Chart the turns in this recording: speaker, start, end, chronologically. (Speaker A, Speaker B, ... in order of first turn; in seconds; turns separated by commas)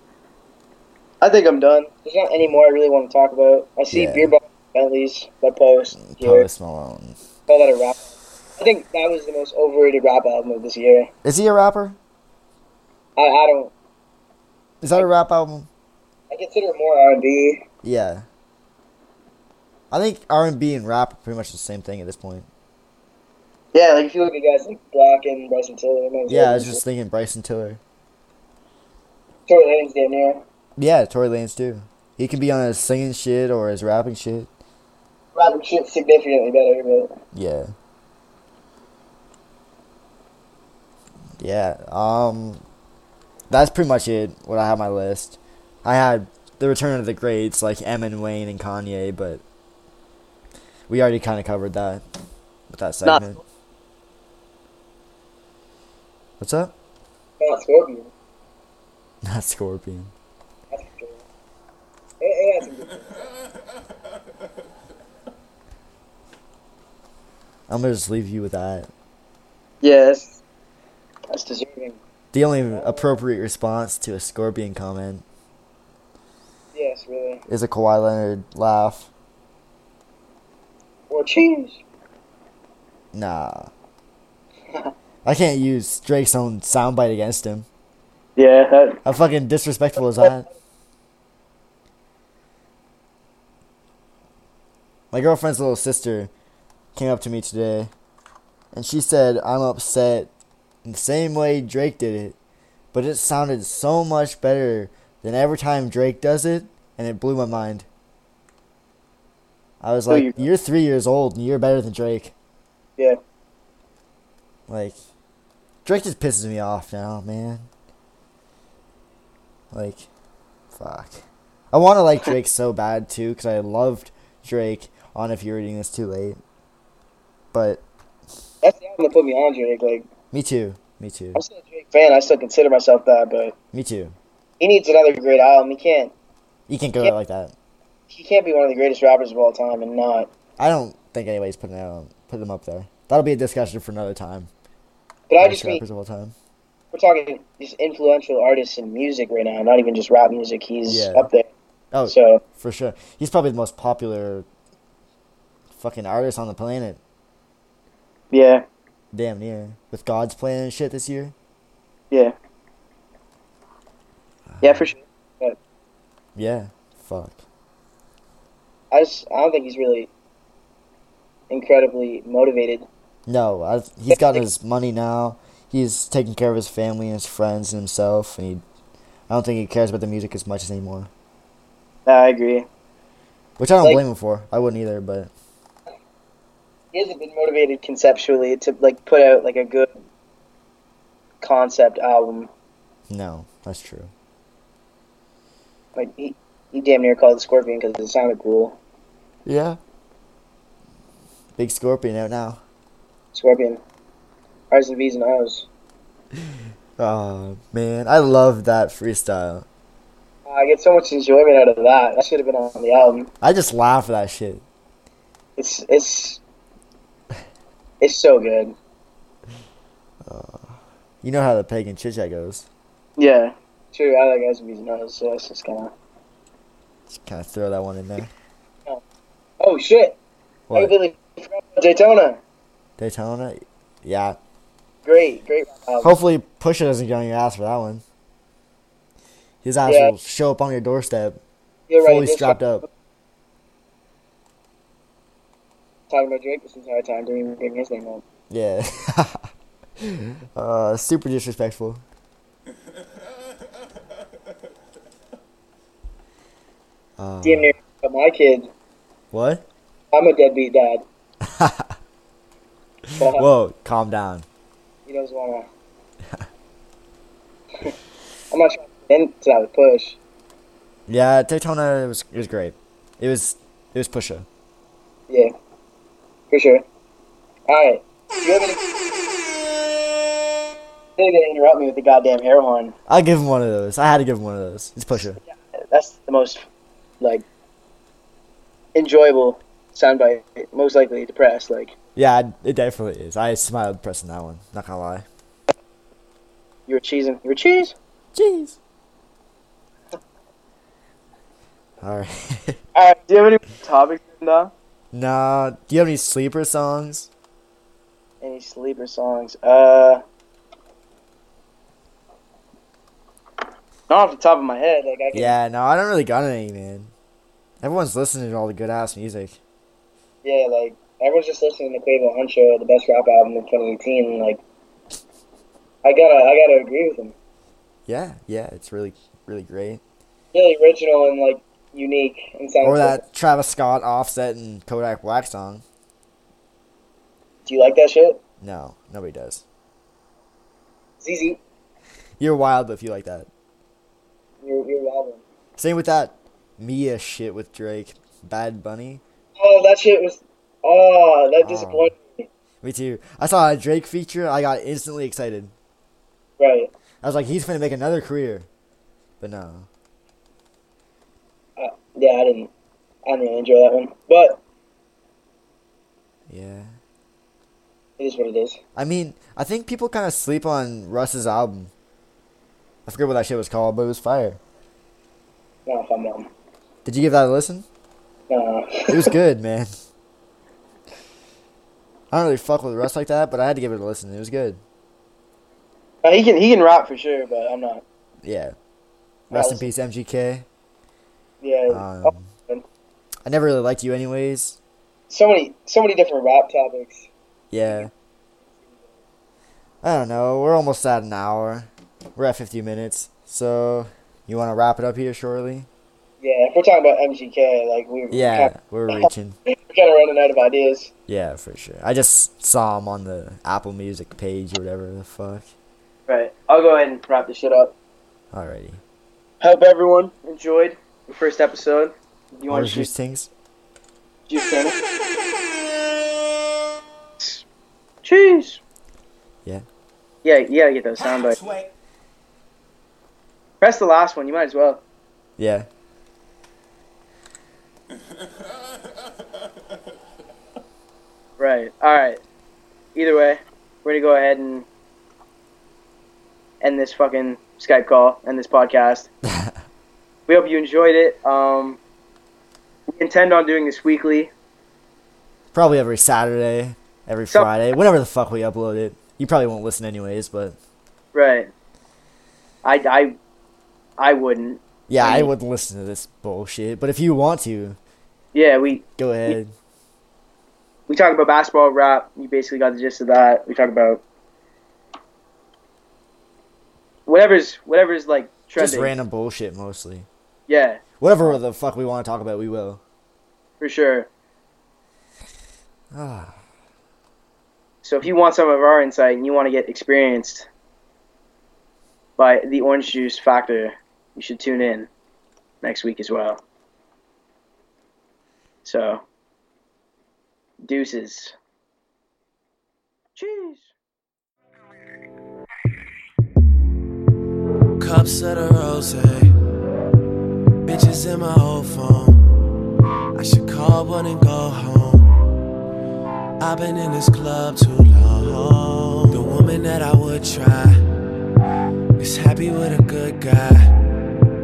Speaker A: 1.2-6.5, Speaker B: 3.9-4.3, Speaker B: 6.0-7.2, Speaker A: 7.5-8.1, Speaker A: 8.6-11.1, Speaker B: 11.2-12.0, Speaker A: 13.2-13.7, Speaker B: 14.8-15.7, Speaker A: 16.3-17.6, Speaker B: 17.8-18.3, Speaker B: 19.9-22.5, Speaker A: 23.7-26.8, Speaker B: 26.3-27.8, Speaker A: 29.5-30.4, Speaker B: 30.8-34.5, Speaker A: 35.4-37.1, Speaker B: 37.3-37.7, Speaker B: 41.4-42.6, Speaker B: 43.5-49.4, Speaker B: 50.9-52.0, Speaker B: 52.7-53.4, Speaker B: 56.4-56.7, Speaker A: 57.4-58.1, Speaker B: 59.2-60.1, Speaker A: 60.7-61.2, Speaker A: 62.2-63.3, Speaker B: 67.7-68.9, Speaker A: 69.8-70.4, Speaker A: 71.3-72.0, Speaker B: 72.3-75.2, Speaker A: 72.7-73.2, Speaker A: 76.7-77.4, Speaker B: 77.5-79.1, Speaker A: 81.1-81.8, Speaker B: 83.1-83.7, Speaker B: 85.2-87.7, Speaker A: 88.4-89.0, Speaker B: 89.0-90.5, Speaker B: 95.1-96.3, Speaker B: 97.0-97.9, Speaker B: 98.7-100.3, Speaker B: 100.8-102.4, Speaker B: 102.9-107.9, Speaker B: 109.8-112.3, Speaker A: 110.1-110.4, Speaker B: 114.7-115.0, Speaker B: 115.8-117.7, Speaker B: 119.7-120.1, Speaker B: 120.7-126.4, Speaker B: 127.5-127.8, Speaker A: 128.6-130.1, Speaker B: 130.3-131.4, Speaker A: 131.3-133.6, Speaker B: 133.7-134.2, Speaker A: 134.6-136.1, Speaker B: 136.7-137.6, Speaker A: 138.1-140.3, Speaker B: 140.6-144.5, Speaker A: 145.3-145.8, Speaker B: 145.4-146.3, Speaker A: 146.9-151.5, Speaker B: 150.9-151.3, Speaker B: 151.9-154.5, Speaker A: 152.1-152.4, Speaker B: 155.7-157.0, Speaker A: 158.3-158.6, Speaker B: 159.1-161.3, Speaker A: 162.1-162.4, Speaker B: 164.5-164.9, Speaker A: 164.6-165.6, Speaker B: 166.4-167.4, Speaker A: 168.9-170.1, Speaker A: 171.5-172.9, Speaker B: 173.3-178.6, Speaker A: 174.1-174.4, Speaker B: 179.3-181.1, Speaker A: 182.1-182.7, Speaker B: 183.6-185.3, Speaker A: 186.9-189.9, Speaker A: 191.4-192.5, Speaker B: 193.1-194.1, Speaker A: 196.0-198.8, Speaker B: 199.4-199.8, Speaker B: 201.6-202.6, Speaker A: 203.3-203.8, Speaker A: 204.7-205.7, Speaker B: 207.0-209.7, Speaker A: 210.5-213.3, Speaker B: 213.4-214.6, Speaker A: 215.6-216.4, Speaker A: 218.0-218.8, Speaker B: 220.2-222.7, Speaker A: 223.2-225.9, Speaker B: 227.1-228.3, Speaker A: 229.6-230.2, Speaker B: 230.7-230.9, Speaker A: 230.8-232.4, Speaker B: 233.0-234.4, Speaker A: 235.1-236.2, Speaker B: 236.0-238.0, Speaker B: 239.6-241.4, Speaker A: 239.9-240.1, Speaker A: 241.9-242.7, Speaker B: 242.0-242.9, Speaker A: 246.1-248.2, Speaker B: 248.5-249.4, Speaker B: 250.0-252.0, Speaker B: 257.2-257.7, Speaker A: 257.4-258.7, Speaker B: 259.3-259.6, Speaker A: 260.1-261.0, Speaker B: 261.4-261.9, Speaker B: 263.1-264.5, Speaker A: 263.2-263.5, Speaker A: 265.1-265.7, Speaker A: 268.5-270.2, Speaker B: 271.1-274.5, Speaker A: 276.5-276.8, Speaker A: 277.7-278.8, Speaker A: 281.2-282.9, Speaker B: 283.1-285.4, Speaker A: 285.5-286.6, Speaker A: 287.2-287.4, Speaker A: 288.9-291.9, Speaker B: 292.2-295.3, Speaker A: 296.9-298.0, Speaker B: 298.3-298.8, Speaker B: 302.0-302.8, Speaker A: 302.9-304.7, Speaker B: 305.1-307.3, Speaker A: 308.4-310.2, Speaker A: 314.1-315.6, Speaker B: 315.3-317.1, Speaker B: 317.8-319.6, Speaker A: 320.4-324.6, Speaker A: 326.0-327.3, Speaker B: 328.1-330.0, Speaker A: 330.5-333.2, Speaker B: 332.8-335.8, Speaker A: 337.7-338.4, Speaker B: 338.6-339.6, Speaker A: 341.2-341.6, Speaker B: 342.4-343.5, Speaker A: 344.6-345.4, Speaker B: 345.8-349.2, Speaker A: 349.6-352.5, Speaker B: 351.6-352.1, Speaker B: 352.8-355.7, Speaker A: 356.6-356.9, Speaker B: 357.2-358.7, Speaker B: 359.4-359.9, Speaker A: 361.8-362.7, Speaker A: 363.3-364.6, Speaker B: 366.5-366.9, Speaker A: 368.2-368.8, Speaker B: 368.9-371.9, Speaker B: 373.1-374.6, Speaker A: 375.9-376.5, Speaker B: 377.1-377.9, Speaker A: 378.5-379.3, Speaker B: 379.1-379.9, Speaker B: 382.3-384.8, Speaker A: 386.2-388.0, Speaker B: 388.4-388.8, Speaker B: 389.5-390.7, Speaker A: 389.5-389.9, Speaker A: 391.6-392.9, Speaker B: 391.9-392.5, Speaker B: 393.5-394.8, Speaker A: 395.3-397.3, Speaker B: 397.7-398.1, Speaker B: 400.0-405.9, Speaker A: 406.4-411.1, Speaker B: 408.3-409.6, Speaker B: 411.3-415.7, Speaker A: 416.3-417.9, Speaker B: 418.5-419.0, Speaker A: 419.6-423.1, Speaker B: 422.7-423.5, Speaker A: 424.5-425.0, Speaker A: 428.2-428.8, Speaker A: 430.4-431.8, Speaker A: 433.8-435.0, Speaker B: 435.6-435.9, Speaker A: 441.6-442.4, Speaker A: 443.1-444.9, Speaker A: 446.8-449.3, Speaker A: 450.5-452.0, Speaker A: 453.1-454.5, Speaker B: 455.7-460.8, Speaker A: 461.3-461.7, Speaker A: 462.8-463.4, Speaker A: 464.2-465.5, Speaker B: 465.1-468.0, Speaker A: 468.5-469.6, Speaker B: 469.2-469.7, Speaker A: 471.1-474.2, Speaker A: 477.3-479.1, Speaker B: 478.8-480.3, Speaker A: 480.7-481.6, Speaker B: 481.2-483.0, Speaker A: 483.8-484.3, Speaker B: 486.1-486.6, Speaker A: 488.0-490.7, Speaker A: 492.4-495.1, Speaker A: 495.8-496.6, Speaker A: 498.8-499.2, Speaker A: 500.8-501.6, Speaker A: 503.4-503.9, Speaker C: 508.0-509.5, Speaker C: 510.9-512.5, Speaker C: 513.4-515.3, Speaker C: 516.6-521.0, Speaker C: 522.2-524.0